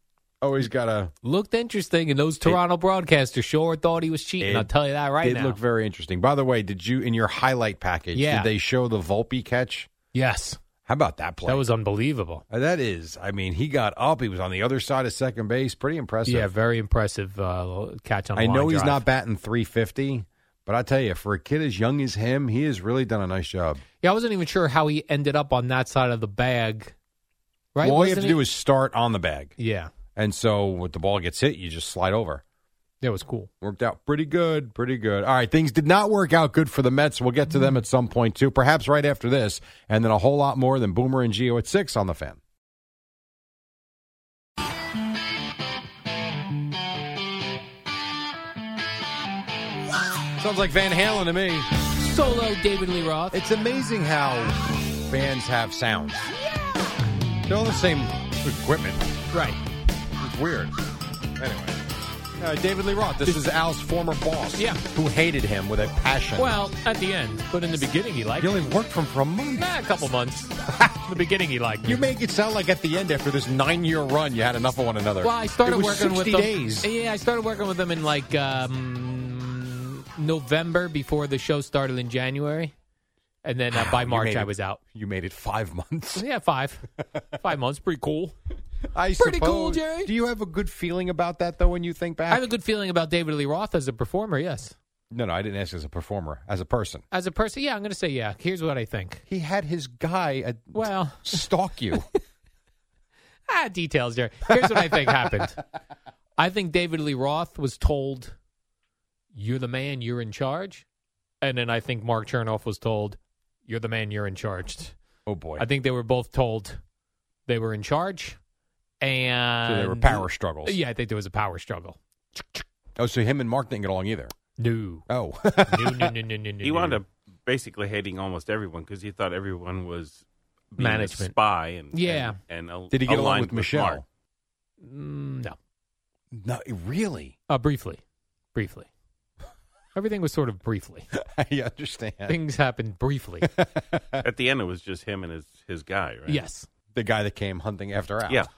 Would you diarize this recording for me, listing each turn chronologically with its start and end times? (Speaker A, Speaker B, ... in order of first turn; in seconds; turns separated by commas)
Speaker A: 0.4-1.1, Speaker B: 1.2-5.6, Speaker A: 4.4-9.9, Speaker B: 8.1-8.5, Speaker B: 10.1-10.6, Speaker A: 10.8-11.7, Speaker B: 11.4-12.4, Speaker A: 12.5-16.5, Speaker B: 16.2-19.0, Speaker A: 18.3-23.8, Speaker B: 24.0-26.9, Speaker B: 27.7-28.4, Speaker A: 27.8-29.5, Speaker B: 29.6-29.9, Speaker A: 30.1-32.4, Speaker B: 33.0-33.5, Speaker A: 33.6-42.4, Speaker A: 50.4-51.7, Speaker B: 52.0-53.4, Speaker A: 53.3-56.3, Speaker A: 57.5-59.1, Speaker B: 59.3-59.6, Speaker A: 60.2-60.7, Speaker A: 61.4-61.8, Speaker A: 62.4-66.5, Speaker B: 64.6-64.8, Speaker B: 66.4-68.5, Speaker A: 68.4-69.7, Speaker B: 69.5-72.0, Speaker A: 70.7-71.0, Speaker A: 71.8-76.9, Speaker B: 75.2-82.7, Speaker B: 83.4-84.8, Speaker A: 83.7-86.2, Speaker B: 86.1-86.8, Speaker B: 87.3-88.3, Speaker A: 88.9-92.5, Speaker B: 89.2-90.1, Speaker B: 92.3-94.7, Speaker A: 95.1-97.0, Speaker B: 97.1-99.2, Speaker A: 99.3-102.0, Speaker B: 100.7-101.5, Speaker B: 103.5-105.6, Speaker A: 104.5-105.1, Speaker B: 106.4-108.3, Speaker B: 109.3-110.8, Speaker B: 111.4-114.9, Speaker A: 115.2-115.7, Speaker B: 115.6-116.8, Speaker B: 117.5-118.4, Speaker B: 119.0-122.6, Speaker A: 119.6-120.8, Speaker A: 123.0-124.3, Speaker B: 124.6-125.0, Speaker A: 125.1-126.1, Speaker B: 125.6-127.0, Speaker C: 126.6-134.0, Speaker B: 130.8-131.3, Speaker B: 131.9-132.4, Speaker A: 132.9-134.0, Speaker B: 134.8-135.6, Speaker A: 136.3-137.3, Speaker B: 137.5-138.0, Speaker B: 138.5-138.9, Speaker B: 139.9-141.1, Speaker A: 141.1-142.4, Speaker B: 142.3-143.5, Speaker A: 143.4-144.2, Speaker C: 144.2-146.4, Speaker B: 146.3-146.7, Speaker A: 146.9-148.4